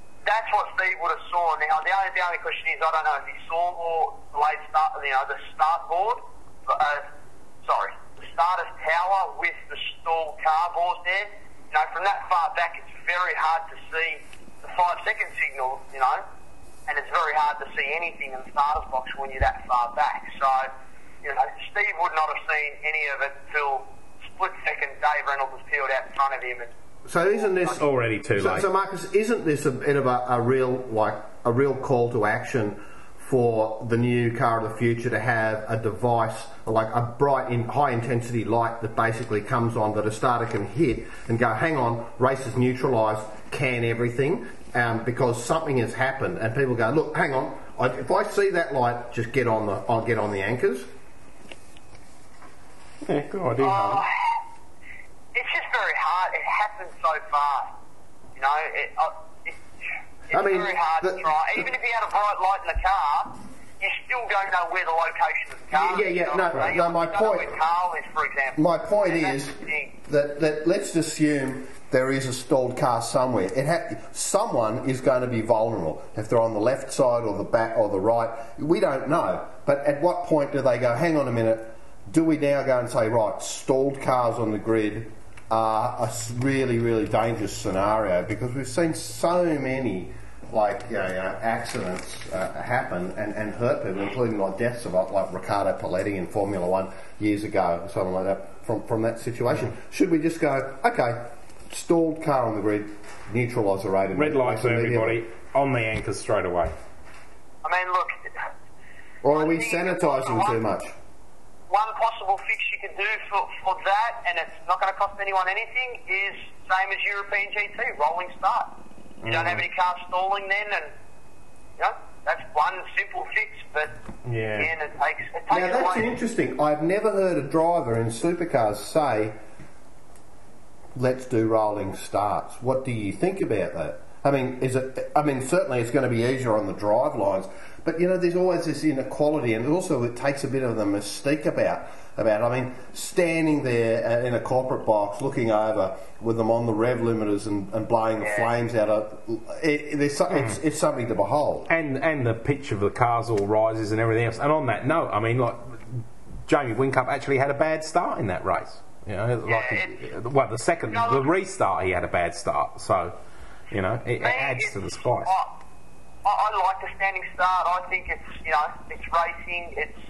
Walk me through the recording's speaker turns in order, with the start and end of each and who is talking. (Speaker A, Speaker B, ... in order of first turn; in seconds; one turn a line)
Speaker A: 0.2-7.0
Speaker A: 7.6-16.2
Speaker A: 16.9-20.7
Speaker A: 21.2-26.7
Speaker B: 27.1-50.9
Speaker C: 27.6-28.7
Speaker C: 53.0-54.0
Speaker A: 53.6-54.4
Speaker A: 55.3-57.7
Speaker A: 58.4-59.6
Speaker A: 60.3-69.9
Speaker B: 60.3-61.6
Speaker B: 65.7-67.5
Speaker B: 68.5-105.2
Speaker C: 104.1-106.7
Speaker A: 107.6-108.3
Speaker B: 109.2-110.9
Speaker A: 109.3-110.6
Speaker A: 111.7-118.7
Speaker C: 119.2-119.6
Speaker A: 119.3-120.9
Speaker A: 121.8-124.0
Speaker C: 124.2-124.7
Speaker A: 124.5-126.1
Speaker B: 125.5-129.4
Speaker B: 130.9-151.7
Speaker A: 148.2-148.5
Speaker C: 151.7-163.2
Speaker A: 159.4-160.0
Speaker A: 160.9-161.3
Speaker C: 163.7-165.3
Speaker A: 164.2-165.6
Speaker A: 166.2-170.0